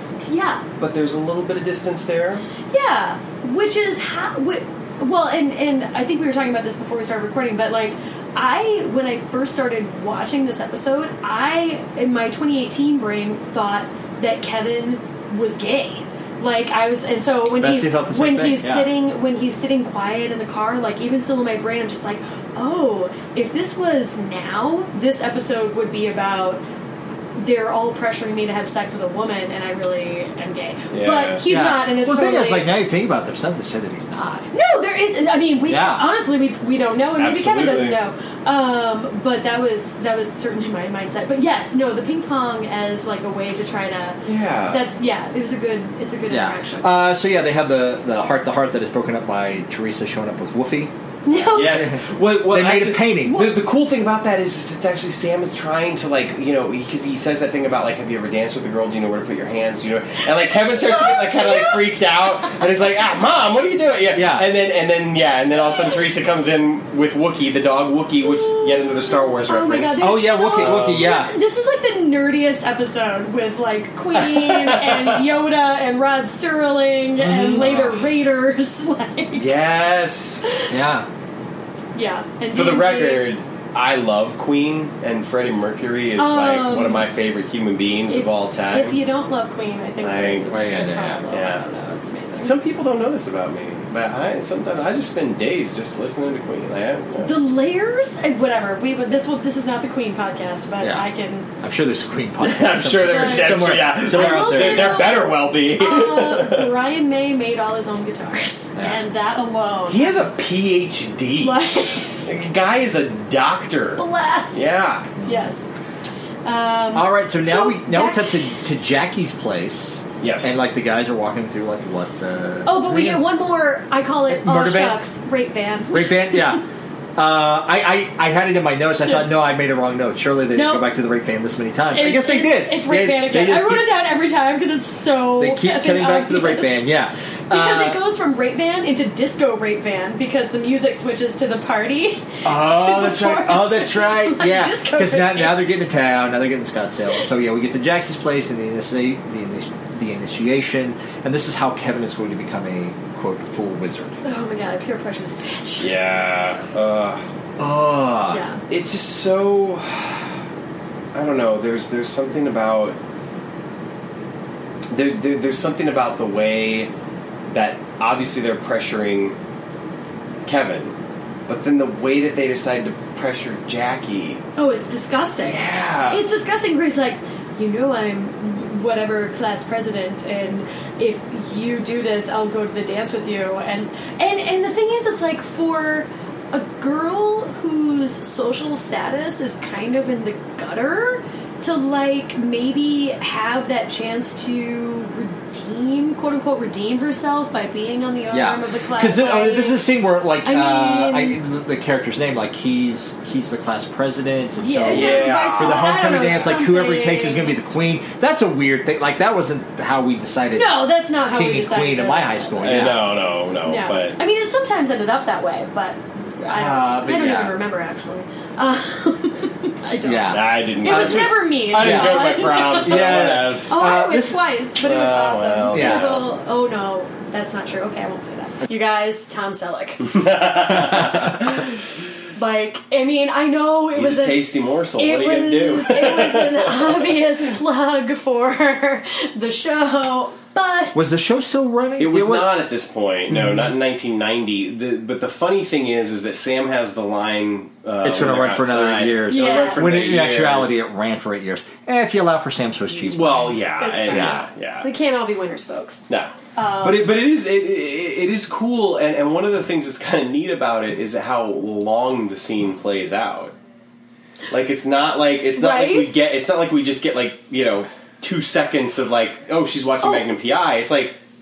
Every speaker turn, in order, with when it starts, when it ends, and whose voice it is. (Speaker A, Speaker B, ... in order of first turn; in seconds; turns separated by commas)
Speaker A: 0.2-0.6, Speaker B: 0.8-2.5, Speaker A: 2.7-26.6, Speaker C: 17.6-18.9, Speaker A: 27.4-32.7, Speaker B: 30.9-31.4, Speaker C: 31.5-34.5, Speaker A: 34.5-46.9, Speaker C: 35.7-36.1, Speaker B: 37.2-38.0, Speaker B: 44.2-44.8, Speaker C: 46.3-50.9, Speaker A: 51.2-51.9, Speaker C: 51.4-53.5, Speaker B: 51.5-71.1, Speaker A: 53.2-53.5, Speaker A: 60.3-62.5, Speaker C: 64.1-64.5, Speaker A: 65.5-66.0, Speaker A: 68.2-79.5, Speaker C: 70.0-71.3, Speaker C: 74.2-75.0, Speaker C: 77.2-77.9, Speaker B: 77.6-77.9, Speaker B: 79.3-80.4, Speaker C: 80.7-81.1, Speaker A: 81.9-83.3, Speaker B: 82.5-89.0, Speaker A: 86.2-87.0, Speaker A: 88.1-92.5, Speaker B: 90.0-90.8, Speaker C: 90.6-91.2, Speaker B: 91.3-91.6, Speaker B: 92.4-97.3, Speaker A: 97.2-101.5, Speaker C: 100.8-101.1, Speaker C: 101.6-105.2, Speaker B: 102.4-106.8, Speaker A: 103.0-110.2, Speaker C: 108.8-109.0, Speaker B: 109.9-111.6, Speaker A: 111.4-112.2, Speaker B: 112.2-115.1, Speaker A: 114.0-115.7, Speaker C: 115.2-115.5, Speaker A: 116.4-118.5, Speaker C: 116.9-123.2, Speaker B: 120.2-120.6, Speaker A: 122.6-126.6, Speaker C: 124.3-125.0, Speaker C: 125.9-126.6, Speaker C: 127.2-133.9, Speaker A: 130.5-130.9, Speaker A: 131.9-136.9, Speaker C: 135.4-138.0, Speaker A: 137.5-145.7, Speaker C: 142.4-154.2, Speaker A: 154.2-155.9, Speaker B: 155.8-157.2, Speaker C: 157.6-158.4, Speaker A: 158.3-158.6, Speaker B: 158.7-160.3, Speaker B: 161.1-163.0, Speaker B: 164.9-166.9, Speaker B: 167.5-169.3, Speaker B: 170.4-170.9, Speaker B: 171.5-174.4, Speaker A: 174.6-199.9, Speaker B: 175.4-176.2, Speaker C: 198.3-213.1, Speaker A: 200.4-201.4, Speaker A: 204.6-207.6, Speaker B: 204.9-206.2, Speaker A: 210.5-212.9, Speaker B: 212.6-214.2, Speaker A: 213.6-230.2, Speaker C: 216.5-217.6, Speaker C: 220.0-224.4, Speaker B: 220.3-223.7, Speaker B: 224.8-226.2, Speaker C: 225.7-226.2, Speaker B: 230.0-231.6, Speaker A: 232.3-234.5, Speaker B: 233.9-237.1, Speaker A: 235.0-241.0, Speaker C: 240.9-242.6, Speaker B: 242.0-250.8, Speaker C: 243.3-243.7, Speaker C: 248.0-254.4, Speaker A: 249.3-249.9, Speaker B: 253.1-254.9, Speaker A: 253.8-256.0, Speaker B: 256.1-263.5, Speaker A: 256.6-257.1, Speaker B: 264.5-271.2, Speaker A: 265.5-266.1